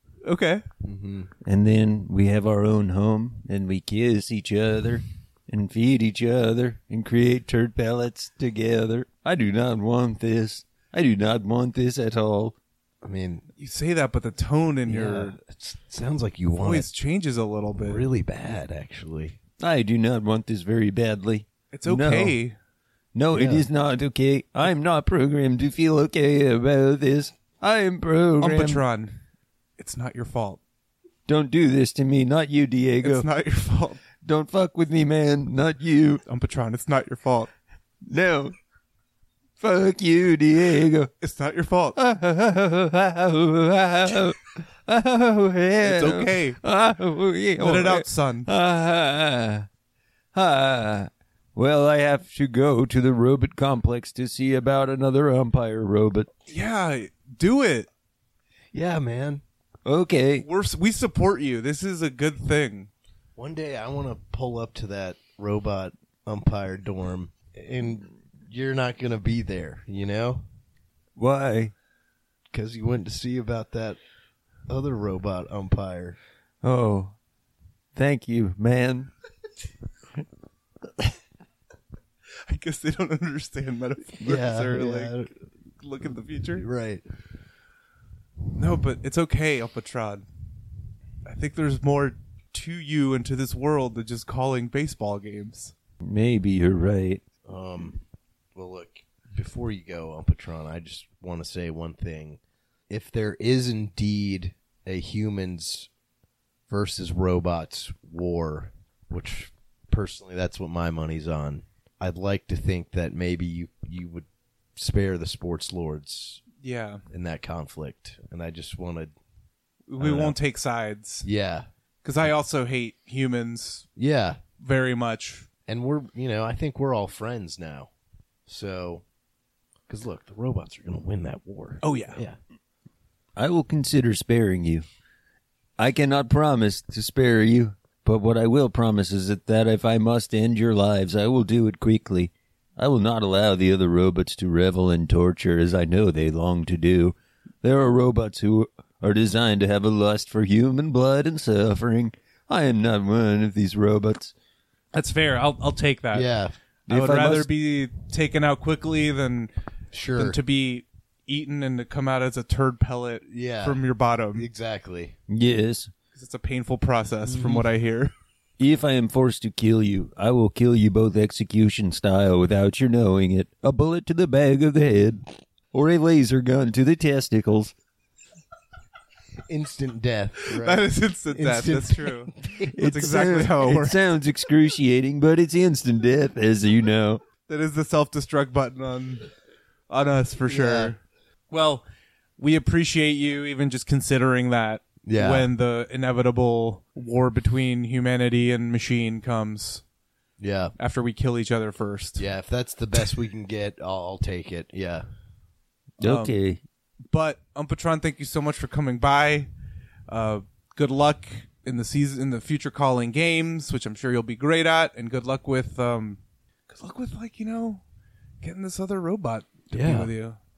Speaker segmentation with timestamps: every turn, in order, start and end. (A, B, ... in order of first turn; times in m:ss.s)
0:00.2-0:00.6 A
0:00.8-0:01.3 B
0:01.4-0:12.6 C
0:13.0-0:13.5 B
0:13.6-0:15.4 A
0:14.9-0:16.9 B
0:16.6-0:18.1 A
0:17.8-0:19.4 B
0:19.6-0:22.4 C
0:21.7-0:22.6 A
0:23.2-0:28.8 C
0:23.3-0:23.7 B
0:28.4-0:29.2 A
0:29.8-0:30.6 A
0:31.3-0:33.3 C
0:33.0-0:34.0 A
0:34.2-0:36.2 C
0:36.3-0:37.5 A
0:38.1-0:38.6 C
0:39.6-0:41.1 C
0:41.2-0:42.0 A
0:42.0-0:49.7 C
0:45.8-0:46.6 A
0:47.6-0:48.5 A
0:50.3-0:56.3 C
0:56.5-0:57.9 A
0:58.7-0:59.4 B
0:59.8-1:00.5 C
1:00.4-1:02.9 A
1:03.4-1:10.4 B
1:11.2-1:11.7 C
1:12.5-1:14.0 B
1:14.7-1:16.2 B
1:16.6-1:17.2 C
1:18.0-1:19.1 C
1:22.5-1:25.3 A
1:24.2-1:25.3 B
1:25.8-1:26.6 A
1:26.6-1:27.0 B
1:28.6-1:30.2 A
1:31.2-1:35.7 A
1:36.0-1:37.2 C
1:37.5-1:38.0 B
1:38.6-1:45.9 B
1:46.7-1:56.4 B
1:56.6-1:57.0 A
1:57.1-1:59.1 B
1:59.9-2:01.3 A
2:00.0-2:00.4 B
2:01.2-2:01.7 B
2:02.0-2:03.9 A
2:04.0-2:04.4 B
2:04.6-2:05.5 A
2:05.7-2:07.9 B
2:08.5-2:09.0 B
2:09.9-2:12.4 B
2:11.8-2:12.2 A
2:13.4-2:14.8 C
2:15.8-2:34.3 C
2:34.9-2:36.3 A
2:36.1-2:36.6 B
2:36.9-2:37.5 C
2:36.9-2:39.5 A
2:39.9-2:40.4 B
2:40.2-2:44.5 A
2:43.3-2:43.8 B
2:44.4-2:45.2 B
2:45.3-2:45.9 C
2:46.2-2:48.1 A
2:47.3-2:47.7 B
2:48.6-2:57.7 C
2:59.5-3:02.7 B
3:00.4-3:04.0 A
3:02.7-3:07.2 C
3:07.5-3:09.3 A
3:09.9-3:11.0 A
3:10.5-3:10.9 B
3:11.5-3:11.8 A
3:12.4-3:19.8 A
3:15.0-3:15.5 B
3:20.4-3:20.7 B
3:20.8-3:22.2 A
3:22.2-3:25.0 B
3:26.0-3:26.6 C
3:26.0-3:26.3 A
3:27.1-3:29.5 A
3:30.1-3:37.8 A
3:38.4-3:40.4 A
3:39.7-3:40.1 B